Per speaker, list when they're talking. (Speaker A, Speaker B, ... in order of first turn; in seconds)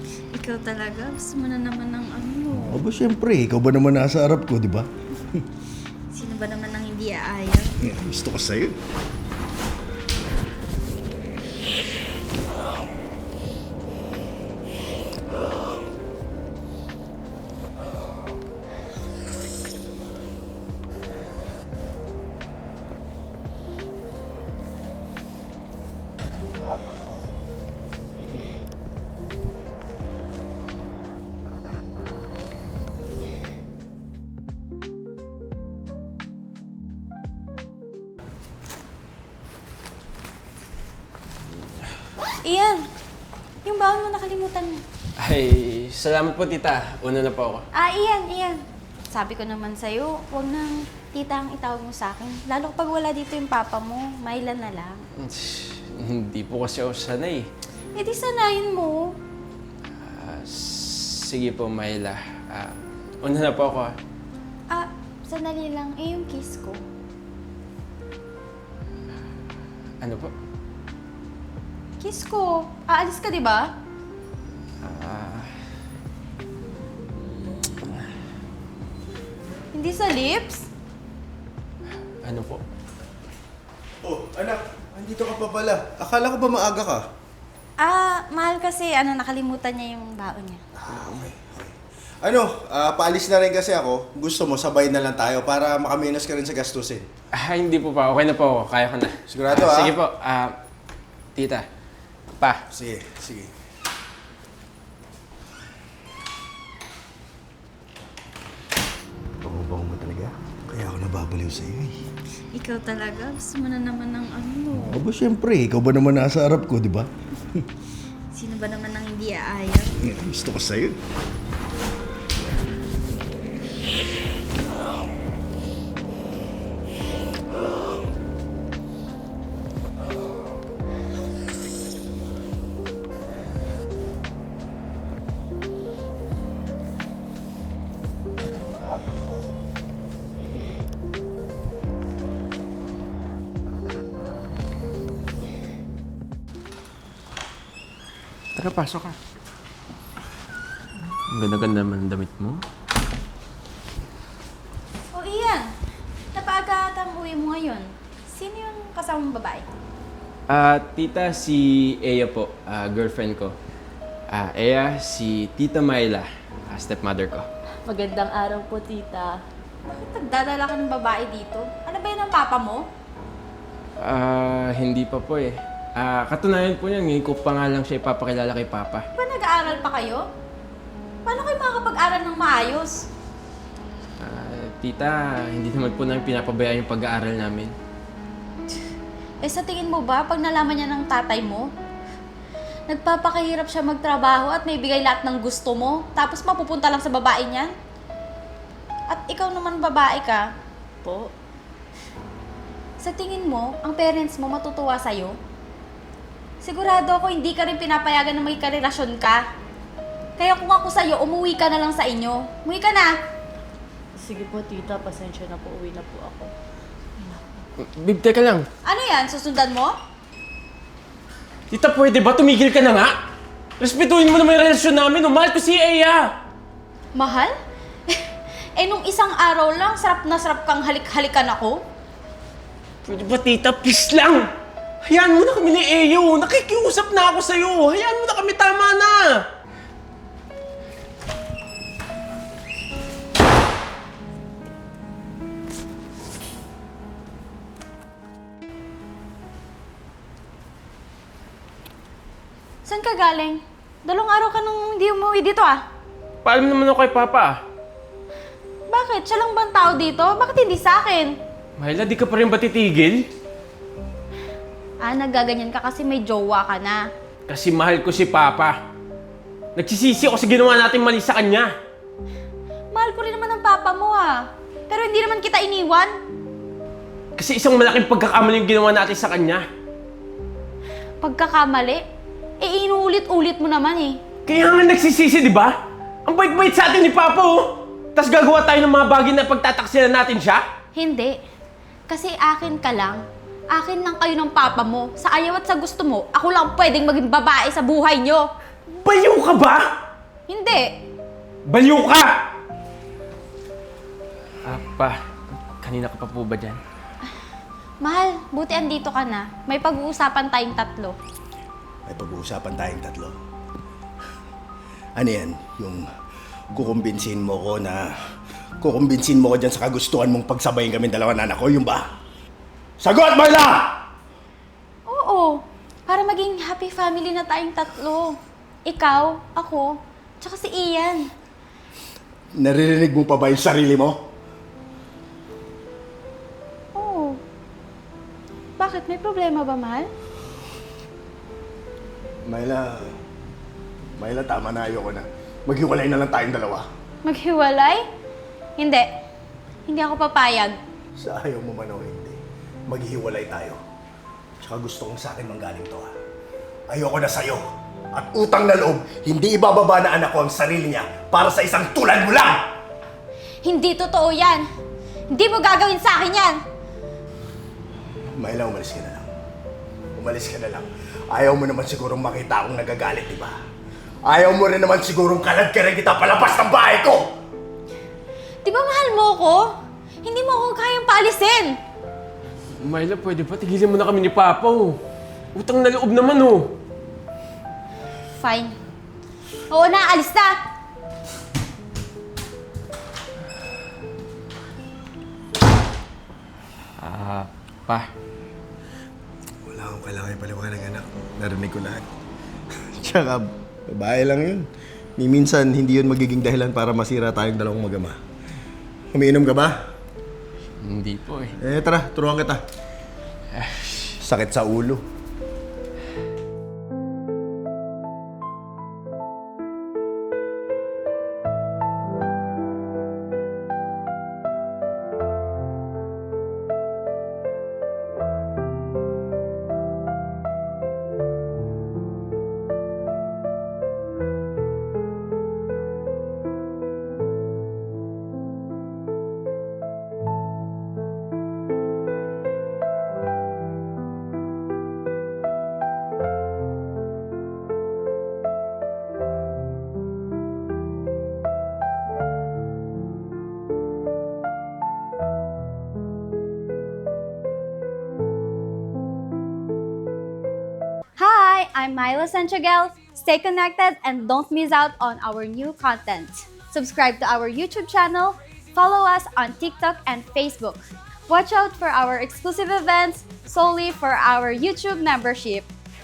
Speaker A: 0.3-2.8, 6.1-7.8, 42.4-42.9, 43.6-44.8, 47.7-55.0, 57.9-59.1, 64.7-66.8, 72.0-73.7, 79.7-80.7, 87.8-90.6, 112.5-115.0, 118.3-120.1, 155.1-155.7, 156.3-159.7, 169.9-172.8, 179.1-180.2, 181.2-183.0, 189.4-191.7, 192.9-197.7, 199.1-200.4, 203.0-205.3, 206.6-209.4, 210.4-213.1, 218.8-219.9, 227.1-227.5, 228.1-231.8, 252.8-255.8, 258.9-261.4, 265.0-267.1, 272.9-276.1, 281.2-282.0, 282.6-284.2, 290.9-291.4, 292.1-298.5, 300.5-300.9, 308.0-311.1, 325.1-331.3, 336.9-337.4, 338.8-340.1, 347.2-348.0, 348.8-349.1, 349.9-350.8, 363.6-364.6, 365.3-366.6, 378.6-379.7, 380.2-381.8, 388.3-388.7, 389.7-390.6, 461.2-475.7
Speaker B: 2.6-5.4, 7.8-8.8, 84.0-87.0, 90.7-97.1, 99.3-100.0, 102.7-103.5, 109.4-112.0, 114.7-117.7, 120.0-121.0, 312.1-313.4, 315.2-316.0, 316.7-318.1, 318.8-322.0, 323.0-324.0, 332.6-334.2, 342.4-343.1, 344.2-346.9, 351.2-353.8, 354.6-356.1, 356.9-357.6, 358.1-362.6, 368.4-369.3, 370.2-373.6, 374.2-377.3, 399.7-402.1, 402.8-408.2, 409.1-409.8, 411.6-412.6, 414.2-415.0
Speaker C: 45.2-47.6, 55.2-57.5, 60.0-63.9, 70.0-70.3, 74.8-75.5, 77.6-78.1, 82.2-82.6, 97.3-100.6, 101.3-101.7, 148.6-149.2, 151.1-152.6, 160.5-163.6, 164.3-167.5, 174.0-179.0, 184.2-187.7, 217.8-218.7, 221.7-223.1, 223.8-226.3, 233.0-234.5, 235.0-239.4, 256.4-257.6, 261.8-263.2, 267.5-268.8, 269.8-271.7, 277.4-279.7, 284.4-285.7, 286.2-290.6, 298.9-299.9, 301.7-302.3, 304.6-306.8, 382.8-385.0, 385.5-386.7, 397.0-398.1, 410.8-411.5, 413.5-414.1
Speaker D: 167.8-169.4, 201.0-201.3, 214.2-216.5, 217.2-217.6